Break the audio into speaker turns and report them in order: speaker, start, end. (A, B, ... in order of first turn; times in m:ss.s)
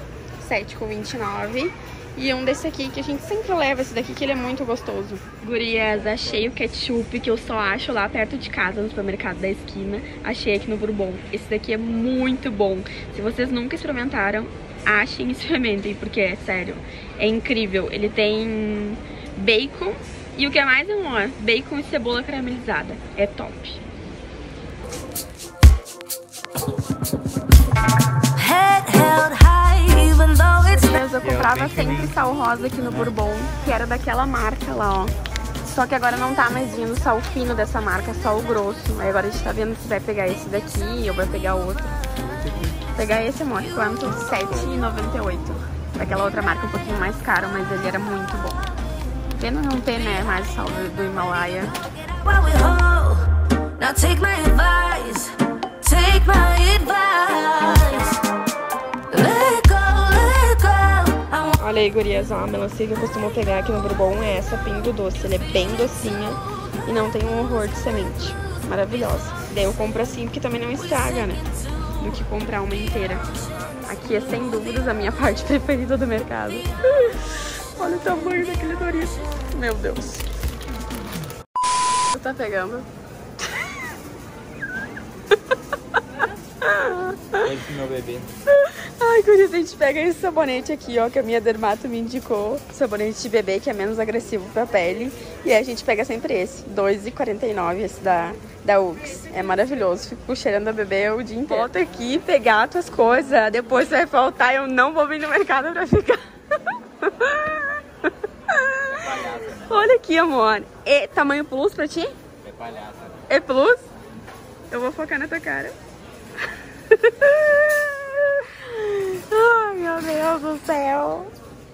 0:00.4-0:23.8 A
0:28.4-0:31.0 B
0:30.7-0:35.1 A
0:31.1-0:32.2 C
0:35.6-0:42.0 A
0:42.2-0:42.8 C
0:42.9-0:48.6 A
0:49.4-0:51.7 A
0:52.1-0:53.2 B
0:53.8-0:58.2 B
0:59.1-1:01.5 B
1:01.6-1:11.4 A
1:12.0-1:13.2 A
1:13.9-1:17.2 A
1:17.8-1:20.2 A
1:22.1-1:22.8 A
1:26.6-1:27.5 A
1:27.4-1:28.3 C
1:28.5-1:46.2 A
1:47.0-1:49.0 A
1:48.9-1:49.9 C
1:49.6-1:52.1 A
1:52.4-1:53.2 C
1:53.3-1:53.9 A
1:54.7-1:55.7 A
1:56.9-2:01.3 A